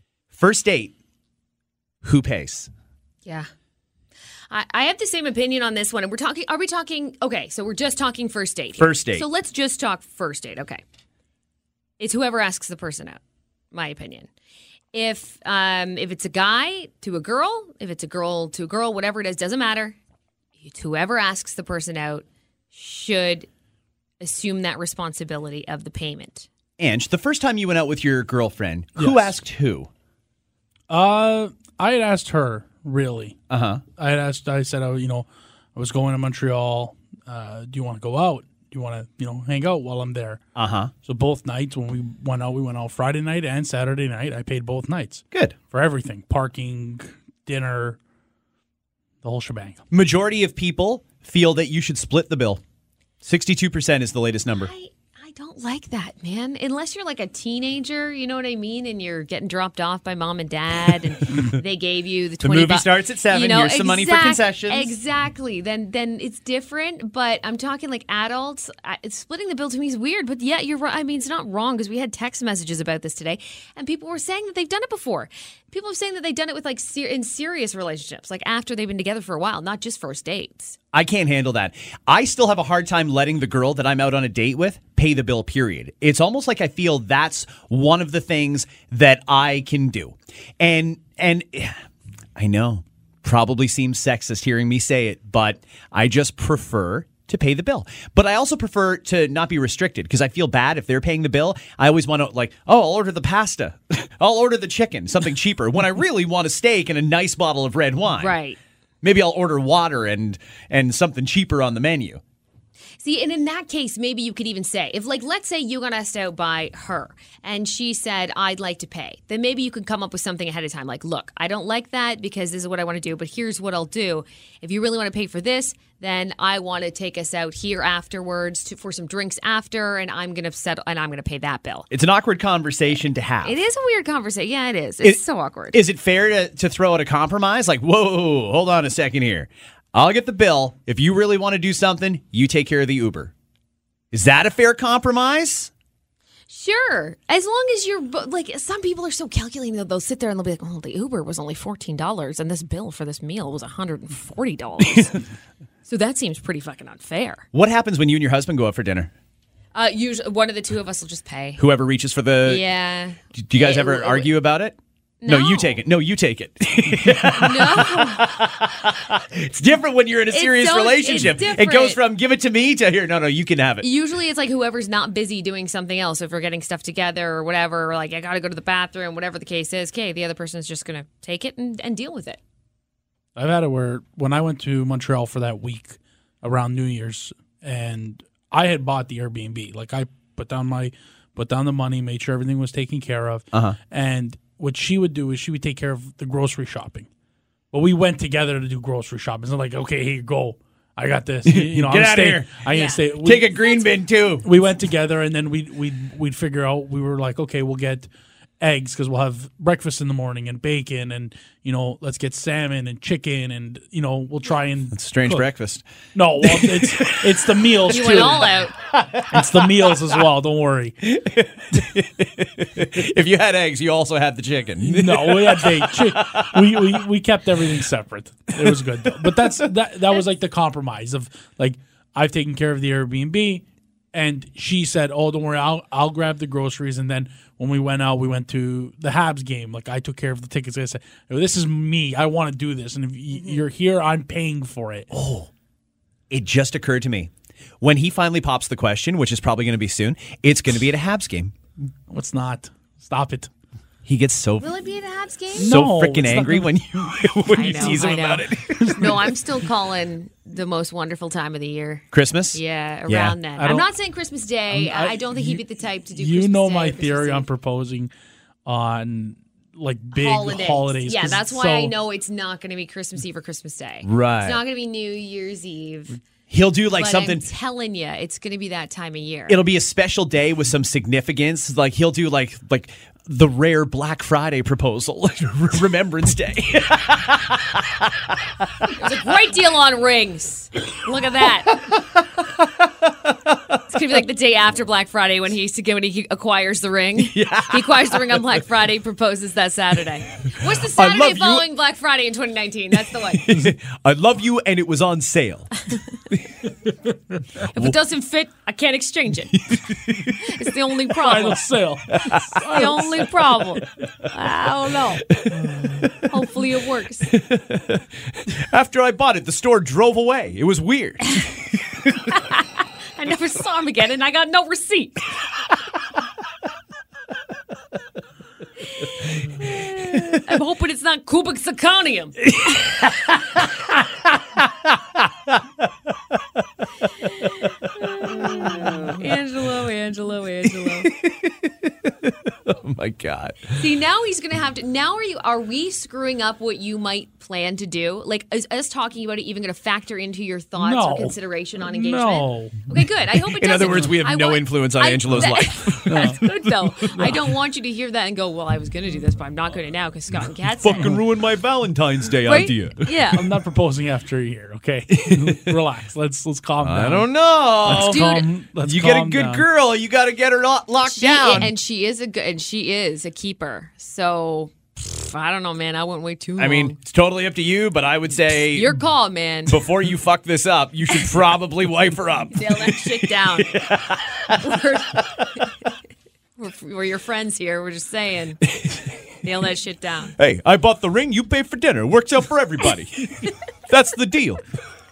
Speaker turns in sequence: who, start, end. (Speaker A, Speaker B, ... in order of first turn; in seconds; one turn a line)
Speaker A: 0.3-0.9
Speaker A: 2.0-2.7
Speaker B: 4.5-10.8
Speaker A: 8.8-9.2
Speaker B: 12.0-13.2
Speaker B: 13.7-14.3
Speaker B: 14.9-20.0
Speaker B: 20.6-23.5
Speaker B: 24.2-26.5
Speaker A: 26.8-29.9
Speaker C: 29.0-29.3
Speaker C: 30.9-33.4
Speaker A: 33.5-33.8
Speaker C: 34.0-40.4
Speaker A: 40.5-40.9
Speaker C: 41.0-48.0
Speaker C: 49.2-49.8
Speaker A: 49.9-52.6
Speaker A: 53.2-54.7
Speaker B: 54.6-80.8
Speaker A: 62.4-64.9
Speaker A: 80.9-91.8
Speaker A: 92.4-108.4
Speaker B: 108.2-108.6
Speaker A: 109.0-112.2
Speaker B: 113.0-131.9
Speaker A: 131.9-133.6
Speaker B: 133.4-135.8
Speaker A: 135.7-143.3
Speaker A: 144.1-145.7
Speaker B: 146.5-155.2
Speaker B: 155.8-157.4
Speaker A: 157.5-159.1
Speaker B: 159.8-161.6
Speaker A: 161.6-162.6
Speaker B: 162.4-164.3
Speaker A: 163.3-173.8
Speaker B: 165.2-165.8
Speaker B: 167.3-168.3
Speaker B: 170.3-172.0
Speaker B: 173.8-182.4
Speaker C: 183.3-197.1
Speaker A: 193.5-193.8
Speaker C: 197.7-203.5
Speaker A: 201.5-202.6
Speaker B: 202.7-203.1
Speaker A: 203.2-204.5
Speaker C: 204.4-208.1
Speaker C: 208.6-215.4
Speaker A: 214.9-215.8
Speaker C: 216.2-218.7
Speaker A: 216.4-218.0
Speaker B: 217.8-218.7
Speaker A: 218.9-219.9
Speaker C: 219.2-220.9
Speaker A: 221.0-226.9
Speaker C: 224.8-245.1
Speaker A: 228.6-229.7
Speaker A: 245.1-245.5
Speaker A: 246.3-251.5
Speaker C: 252.1-253.5
Speaker A: 254.1-254.7
Speaker B: 254.6-255.8
Speaker C: 255.5-256.8
Speaker A: 255.6-259.3
Speaker B: 257.5-267.4
Speaker C: 257.8-258.1
Speaker C: 258.8-259.1
Speaker A: 262.1-263.4
Speaker C: 263.6-263.9
Speaker C: 264.7-268.1
Speaker C: 268.6-271.9
Speaker B: 270.1-276.2
Speaker A: 274.0-274.6
Speaker A: 276.5-277.4
Speaker B: 276.9-279.6
Speaker A: 279.5-288.3
Speaker B: 289.0-291.9
Speaker B: 293.9-303.4
Speaker A: 297.2-298.4
Speaker A: 300.7-301.7
Speaker A: 303.1-305.7
Speaker B: 307.7-309.5
Speaker A: 309.5-310.4
Speaker B: 310.4-311.6
Speaker C: 311.2-313.3
Speaker A: 312.1-312.6
Speaker B: 312.7-315.2
Speaker A: 315.3-316.3
Speaker C: 315.6-316.1
Speaker B: 316.2-317.3
Speaker A: 317.3-321.4
Speaker B: 321.2-321.5
Speaker B: 322.1-325.3
Speaker B: 328.9-332.9
Speaker B: 337.4-341.1
Speaker A: 338.2-339.2
Speaker A: 340.7-343.9
Speaker B: 343.8-361.2
Speaker C: 350.8-352.9
Speaker A: 353.6-356.4
Speaker C: 356.1-356.4
Speaker A: 360.8-363.1
Speaker B: 362.4-363.5
Speaker C: 363.3-367.3
Speaker A: 365.1-365.7
Speaker A: 366.8-371.7
Speaker C: 367.8-369.7
Speaker B: 367.9-368.5
Speaker B: 371.1-377.0
Speaker A: 376.6-378.9
Speaker B: 378.7-379.8
Speaker A: 379.7-384.6
Speaker B: 382.5-383.8
Speaker B: 384.5-385.9
Speaker B: 386.6-388.6
Speaker A: 388.7-389.1
Speaker B: 389.4-390.4
Speaker A: 390.4-394.6